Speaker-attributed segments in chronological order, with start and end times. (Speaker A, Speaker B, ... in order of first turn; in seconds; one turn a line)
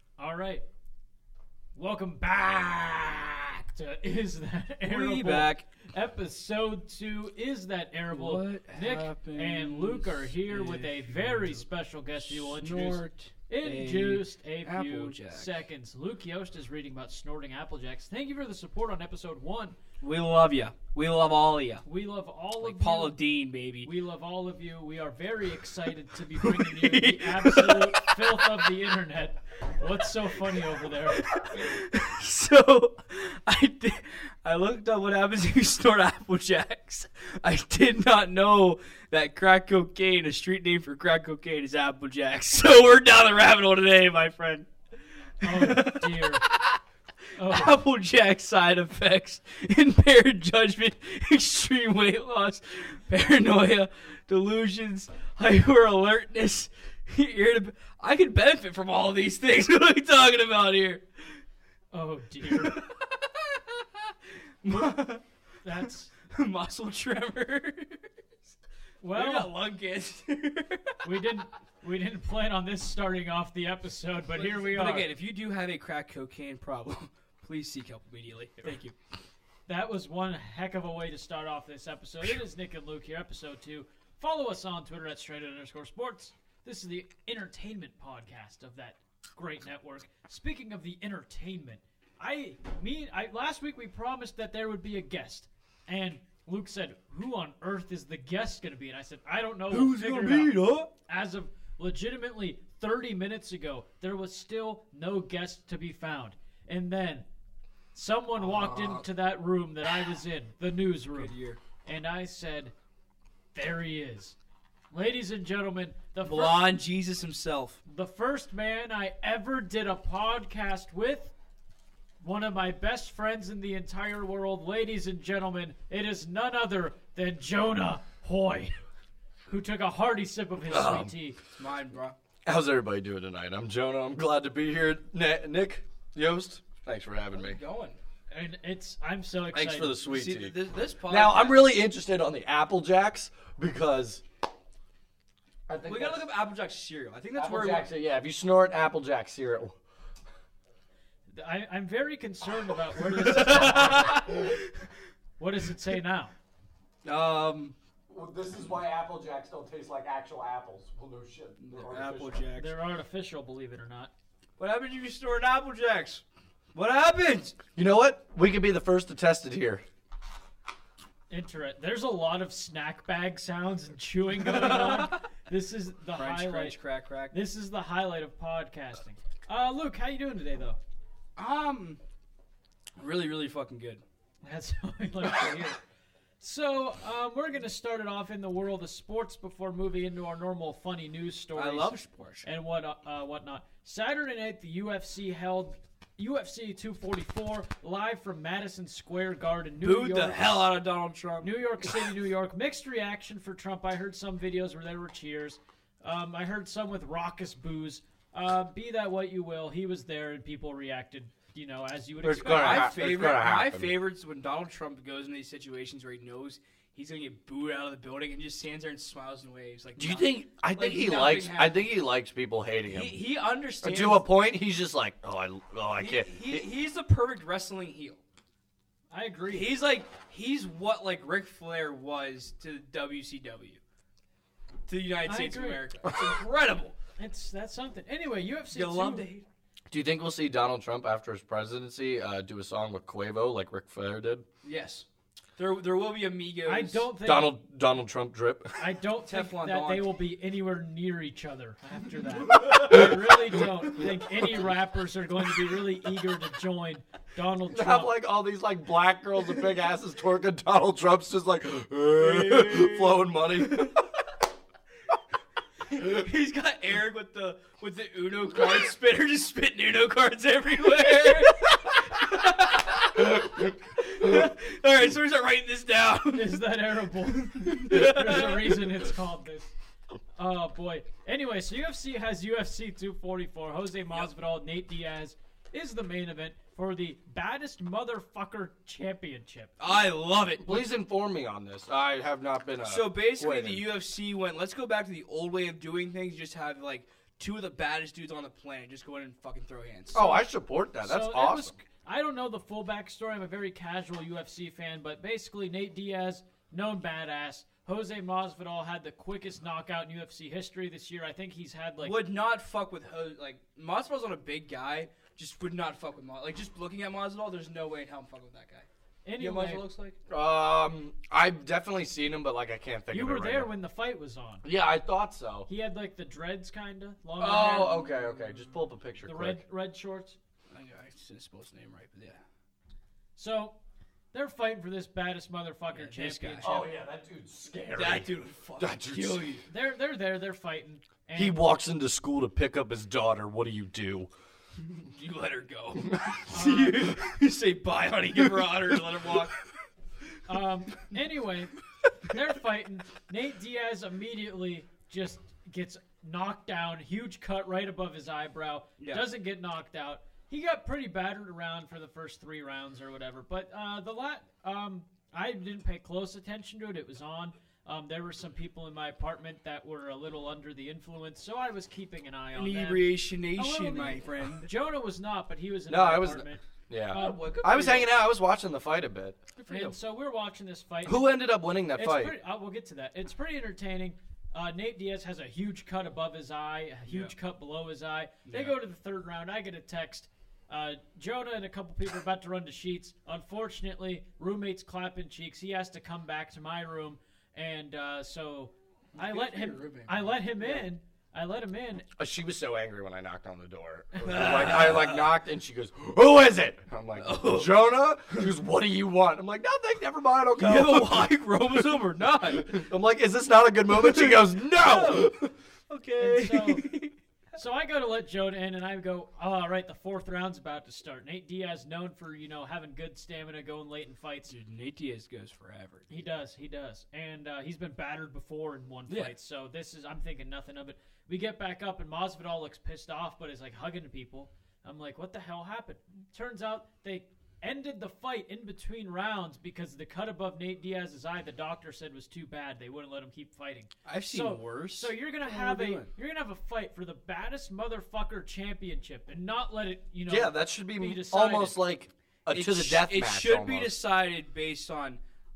Speaker A: 0.2-0.6
Speaker A: 1.8-19.8
Speaker B: 4.8-5.7
Speaker B: 8.1-11.7
Speaker B: 12.2-15.5
Speaker B: 20.0-21.8
Speaker A: 21.8-23.2
Speaker B: 22.6-23.9
Speaker A: 23.8-31.4
Speaker B: 26.4-28.6
Speaker B: 31.1-44.7
Speaker B: 45.4-46.8
Speaker A: 45.4-46.5
Speaker A: 47.4-47.8
Speaker B: 47.4-61.4
Speaker A: 61.9-62.8
Speaker B: 62.5-65.2
Speaker A: 65.6-66.1
Speaker B: 65.8-68.1
Speaker A: 69.0-69.5
Speaker B: 69.1-71.1
Speaker A: 71.0-75.0
Speaker B: 74.3-79.0
Speaker A: 79.7-107.2
Speaker B: 99.7-100.9
Speaker A: 107.9-111.3
Speaker B: 108.3-109.0
Speaker B: 111.1-111.6
Speaker A: 111.8-112.7
Speaker A: 113.5-114.3
Speaker A: 114.9-116.6
Speaker B: 116.2-117.8
Speaker A: 117.8-121.3
Speaker A: 122.2-128.7
Speaker A: 129.5-131.4
Speaker C: 130.7-131.1
Speaker B: 131.5-132.2
Speaker C: 132.4-137.6
Speaker B: 137.3-138.0
Speaker A: 138.3-139.9
Speaker C: 139.5-140.5
Speaker B: 140.0-141.8
Speaker C: 141.1-144.2
Speaker C: 145.7-146.2
Speaker B: 145.8-147.9
Speaker C: 147.3-149.8
Speaker A: 151.3-154.5
Speaker B: 153.1-154.7
Speaker A: 155.4-156.3
Speaker B: 157.0-157.7
Speaker C: 158.1-162.5
Speaker B: 161.6-162.8
Speaker A: 162.5-164.1
Speaker B: 164.6-166.2
Speaker B: 166.7-167.6
Speaker C: 167.8-169.8
Speaker A: 171.3-176.8
Speaker B: 174.3-175.3
Speaker B: 176.1-177.3
Speaker A: 177.3-180.8
Speaker B: 181.4-182.0
Speaker B: 183.0-184.0
Speaker A: 184.4-185.8
Speaker A: 186.4-200.7
Speaker B: 191.5-192.4
Speaker B: 199.8-201.6
Speaker A: 201.4-213.0
Speaker C: 212.2-213.9
Speaker B: 212.4-221.8
Speaker C: 220.0-223.2
Speaker B: 222.8-224.2
Speaker C: 223.8-226.6
Speaker B: 226.0-228.2
Speaker A: 229.1-229.7
Speaker B: 229.5-233.8
Speaker B: 234.9-236.9
Speaker A: 235.2-235.9
Speaker A: 237.2-239.3
Speaker B: 238.7-239.4
Speaker C: 239.9-244.4
Speaker B: 244.6-247.1
Speaker A: 246.7-247.5
Speaker C: 247.2-248.8
Speaker A: 248.8-258.1
Speaker B: 249.2-250.1
Speaker C: 252.7-253.4
Speaker C: 257.7-264.0
Speaker B: 262.2-263.9
Speaker B: 265.9-276.6
Speaker A: 276.3-279.7
Speaker B: 277.3-278.9
Speaker A: 280.4-289.7
Speaker B: 289.8-290.9
Speaker C: 290.6-293.9
Speaker B: 292.8-300.2
Speaker C: 300.1-301.7
Speaker A: 300.1-300.5
Speaker A: 301.0-312.2
Speaker B: 312.0-318.9
Speaker A: 319.2-319.9
Speaker B: 319.4-320.2
Speaker C: 320.3-323.7
Speaker A: 323.1-324.6
Speaker C: 324.6-325.7
Speaker A: 325.7-328.1
Speaker C: 327.4-329.6
Speaker A: 329.2-330.4
Speaker B: 330.7-332.4
Speaker A: 333.4-333.8
Speaker A: 334.3-336.9
Speaker B: 335.9-336.7
Speaker C: 336.6-339.5
Speaker B: 337.9-339.6
Speaker A: 339.7-341.6
Speaker C: 341.4-344.3
Speaker B: 344.9-349.6
Speaker A: 346.5-347.1
Speaker C: 348.3-349.4
Speaker A: 350.5-376.6
Speaker B: 359.0-359.2
Speaker B: 372.5-374.7
Speaker C: 375.9-379.4
Speaker B: 377.1-378.1
Speaker A: 377.1-377.5
Speaker B: 379.6-380.0
Speaker A: 379.7-381.3
Speaker C: 381.1-382.3
Speaker A: 381.9-402.1
Speaker B: 387.1-387.3
Speaker B: 388.4-388.7
Speaker B: 399.1-400.9
Speaker C: 402.2-411.3
Speaker A: 404.1-404.9
Speaker B: 404.2-405.3
Speaker B: 407.2-408.4
Speaker B: 410.6-412.7
Speaker C: 411.9-415.5
Speaker B: 413.9-417.1
Speaker A: 416.2-416.9
Speaker A: 417.6-424.5
Speaker B: 424.5-426.1
Speaker A: 426.1-451.8
Speaker B: 429.1-429.3
Speaker B: 444.0-446.1
Speaker C: 450.3-453.9
Speaker B: 452.5-455.2